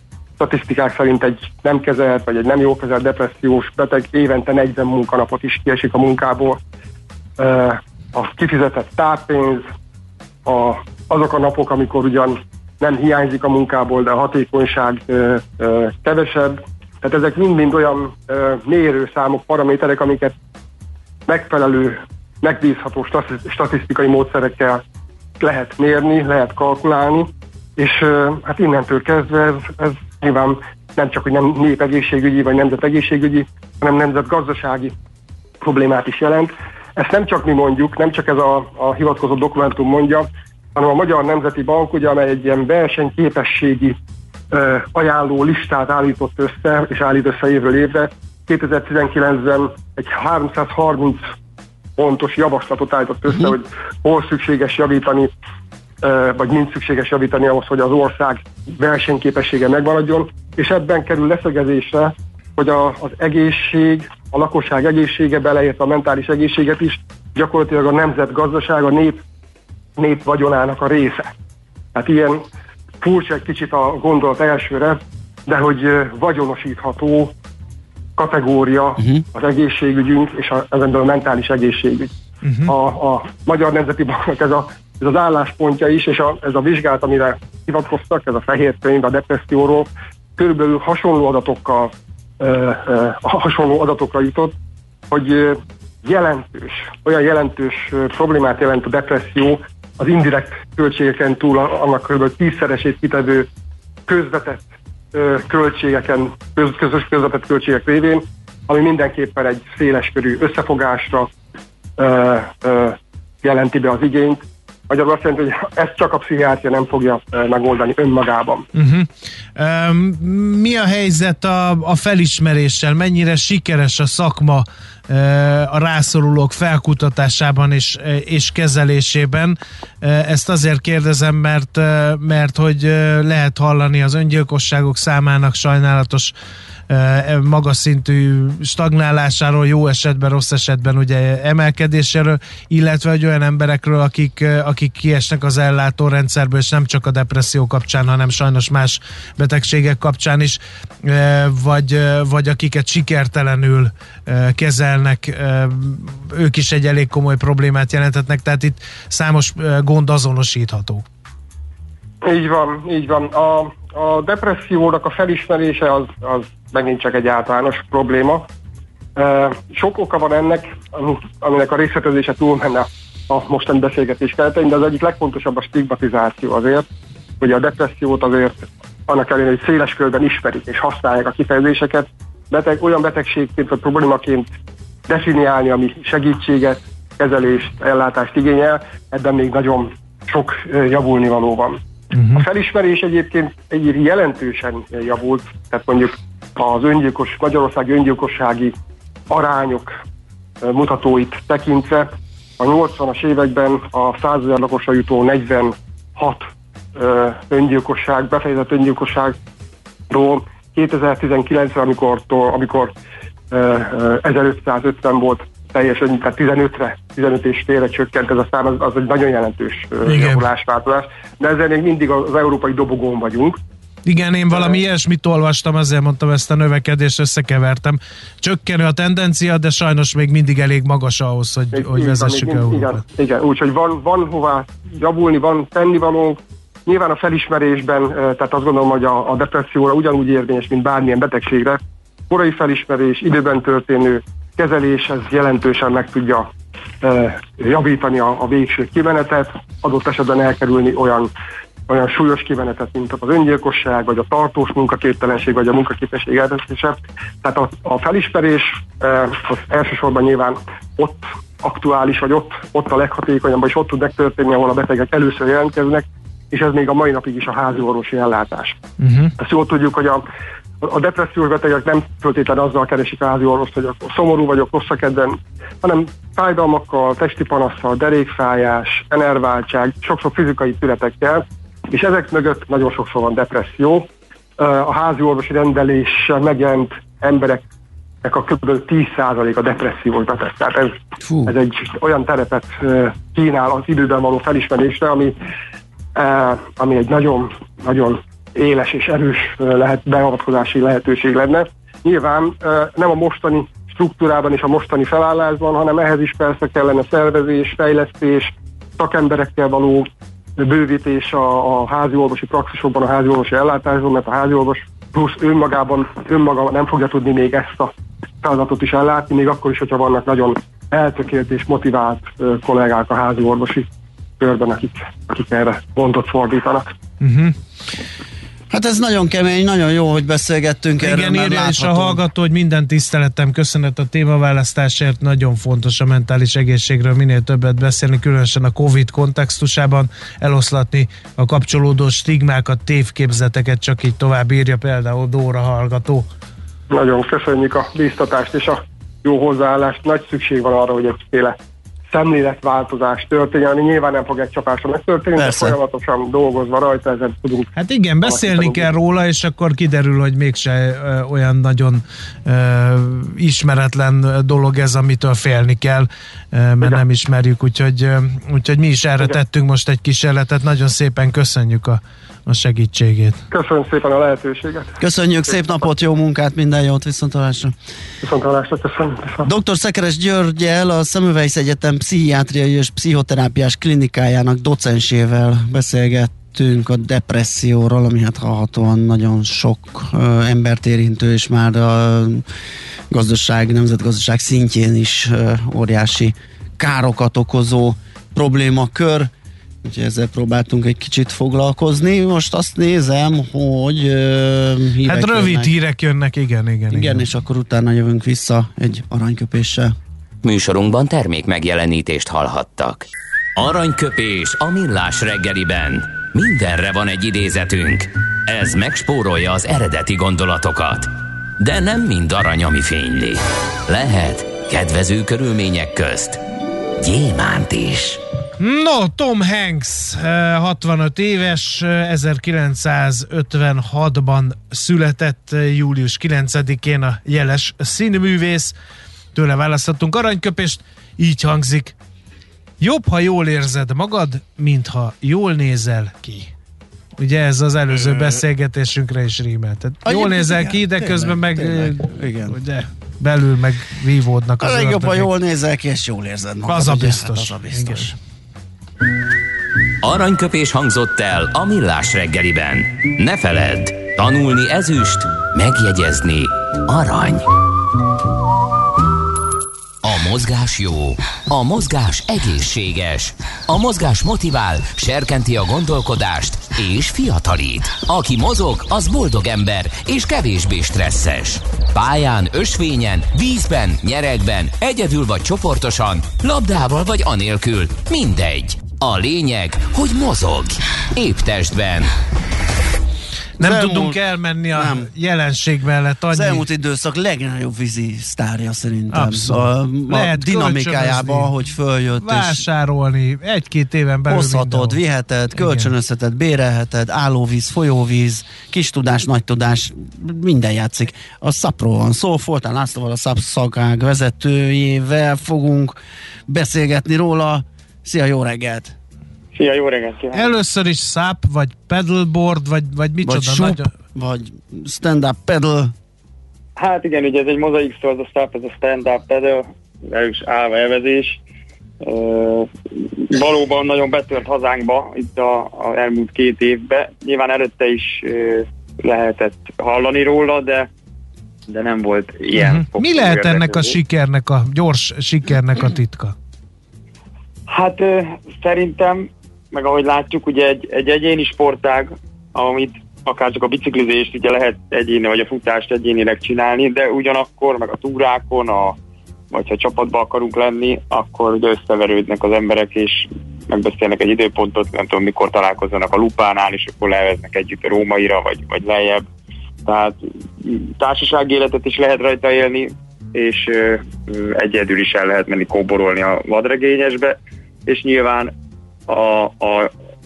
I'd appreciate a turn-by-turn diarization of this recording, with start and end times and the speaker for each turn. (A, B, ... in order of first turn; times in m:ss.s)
0:00.4-0:06.6 A
0:07.4-0:09.6 A
0:10.4-0:20.3 A
0:21.2-0:24.8 A
0:25.4-0:34.9 A
0:35.6-0:44.0 A
0:44.5-0:51.2 A
0:52.0-0:55.3 A
0:56.0-1:09.2 A
1:10.0-1:11.3 A
1:11.9-1:12.4 A
1:13.0-1:17.3 A
1:18.2-1:22.1 A
1:22.4-1:22.7 B
1:22.7-1:34.5 A
1:35.1-1:43.5 A
1:44.1-1:51.3 A
1:52.0-1:58.6 A
1:58.7-2:16.3 B
2:16.9-2:41.0 B
2:42.2-2:48.5 A
2:49.2-2:56.8 A
2:57.4-3:04.5 A
3:05.1-3:11.8 A
3:12.1-3:12.4 B
3:12.3-3:18.7 A
3:19.3-3:20.0 A
3:20.6-3:29.4 A
3:30.1-3:32.9 A
3:33.5-3:43.6 A
3:40.0-3:40.4 B
3:44.0-3:53.0 B
3:51.7-4:06.5 A
4:07.0-4:11.3 A
4:11.9-4:28.8 A
4:29.0-4:29.3 B
4:29.4-4:30.2 A
4:30.8-4:47.6 A
4:48.2-4:55.3 A
4:56.1-5:10.1 A
5:10.6-5:23.9 A
5:24.4-5:26.9 A
5:27.2-5:27.5 B
5:28.7-5:32.2 C
5:31.0-5:46.3 B
5:46.9-5:51.6 A
5:52.1-5:57.7 A
5:55.4-5:55.8 C
5:57.8-6:13.4 B
5:58.2-5:58.8 A
6:13.5-6:15.0 A
6:15.0-6:17.7 C
6:18.2-6:19.5 A
6:19.4-6:32.4 C
6:33.1-6:39.3 C
6:39.8-6:45.7 C
6:45.0-6:47.2 B
6:46.9-6:49.9 C
6:50.4-7:06.4 D
7:07.0-7:08.2 D
7:08.6-7:18.7 B
7:19.3-7:21.9 B
7:22.8-7:26.5 B
7:27.2-7:35.3 B
7:28.0-7:28.4 C
7:30.0-7:32.6 C
7:34.6-7:38.2 C
7:36.6-7:38.1 B
7:40.0-7:47.5 D
7:50.0-8:12.1 D
8:13.6-8:16.6 B
8:13.6-8:14.2 C
8:14.8-8:15.1 C
8:16.3-8:22.6 C
8:19.1-8:21.5 B
8:22.2-8:25.0 B
8:24.3-8:36.0 C
8:25.5-8:25.9 B
8:36.5-8:38.9 C
8:39.5-8:40.5 E
8:40.3-8:43.9 B
8:43.2-8:45.9 C
8:46.8-8:51.4 E
8:52.0-9:00.9 E
9:01.7-9:04.0 E
9:02.5-9:06.3 B
9:07.7-9:19.0 E
9:19.5-9:29.2 E
9:29.8-9:38.5 E
9:39.1-9:39.9 E